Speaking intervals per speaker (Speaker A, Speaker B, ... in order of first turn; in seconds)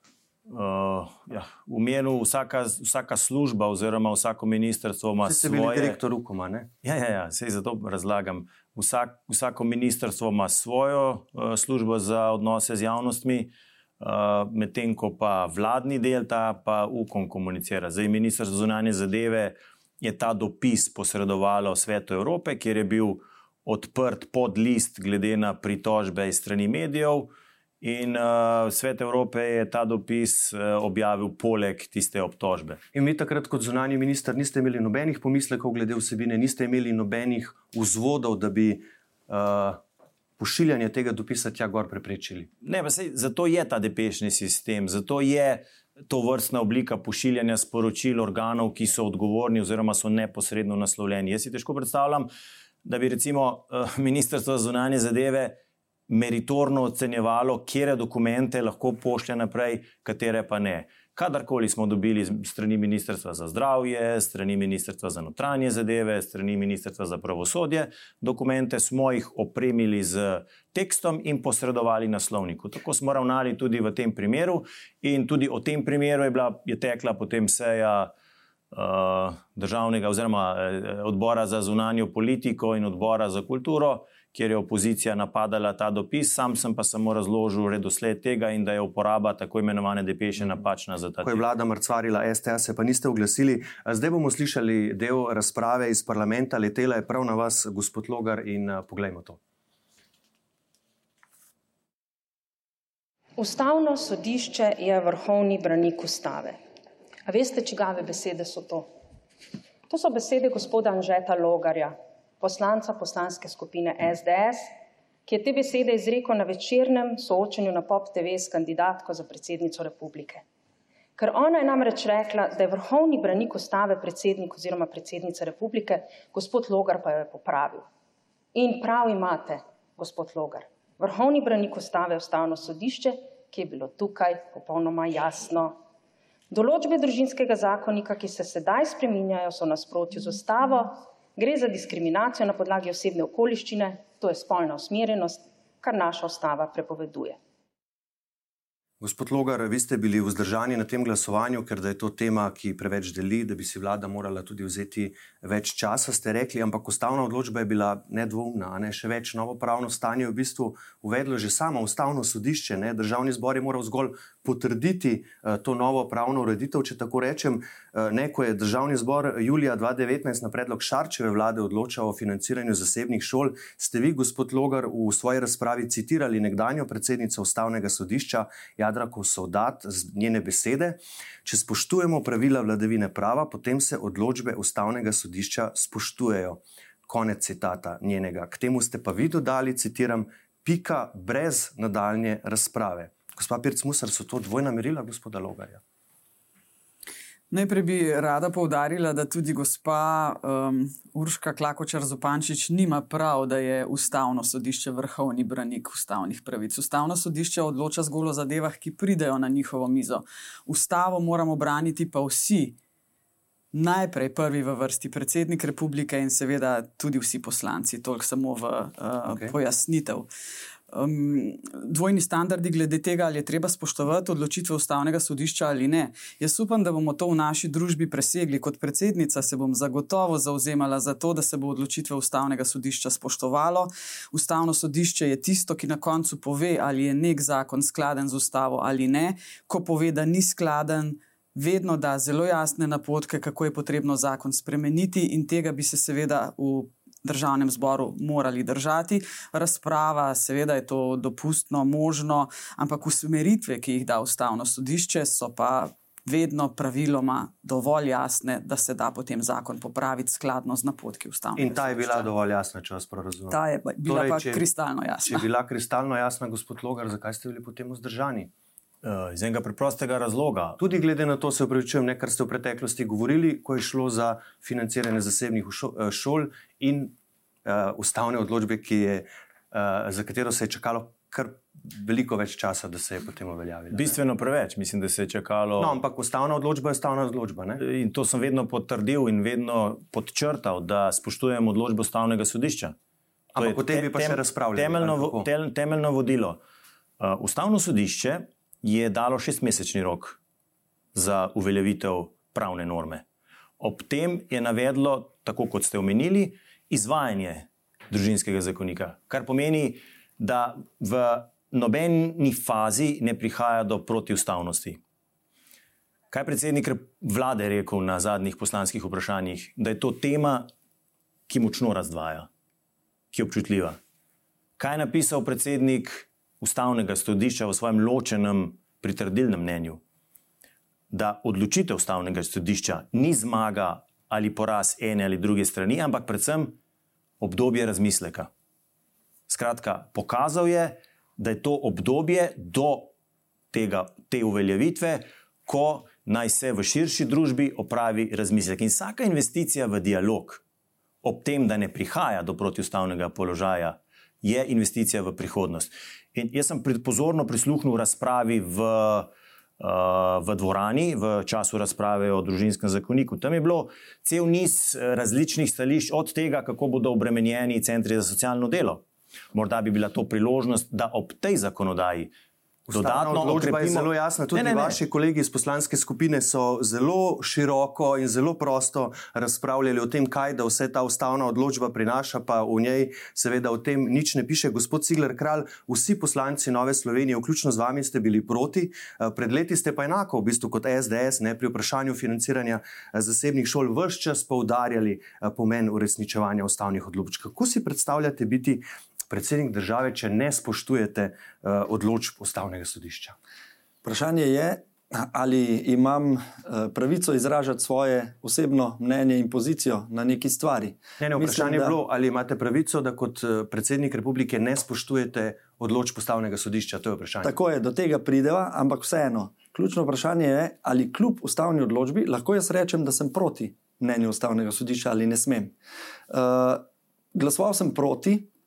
Speaker A: 0.5-6.0, 6.8-32.8, 42.6-52.3, 52.9-55.6, 56.1-78.1, 78.7-91.4, 269.0-270.8, 283.9-286.0, 287.8-292.9, 293.6-296.6, 297.2-300.4, 301.1-303.2, 303.8-315.0, 316.3-320.7, 321.5-322.5, 323.3-324.0, 324.8-330.0, 331.1-336.8, 337.4-338.5, 339.5-343.1, 343.7-350.6, 351.2-372.3, 372.9-375.0
Speaker B: 5.2-6.7, 32.9-39.8, 40.4-42.5, 91.2-99.4, 149.0-195.8, 219.3-219.6, 261.6-264.6, 265.2-268.5, 270.8-284.2, 285.8-287.8, 293.6-295.5, 372.9-403.4, 411.2-417.5
Speaker C: 103.4-106.6, 107.3-108.9, 109.9-114.7, 115.3-120.4, 121.2-127.9, 128.5-135.8, 136.5-147.4
Speaker D: 197.5-212.8, 213.7-220.3, 220.9-262.3, 263.5-265.5
Speaker E: 404.0-412.0, 417.4-425.7, 426.3-428.5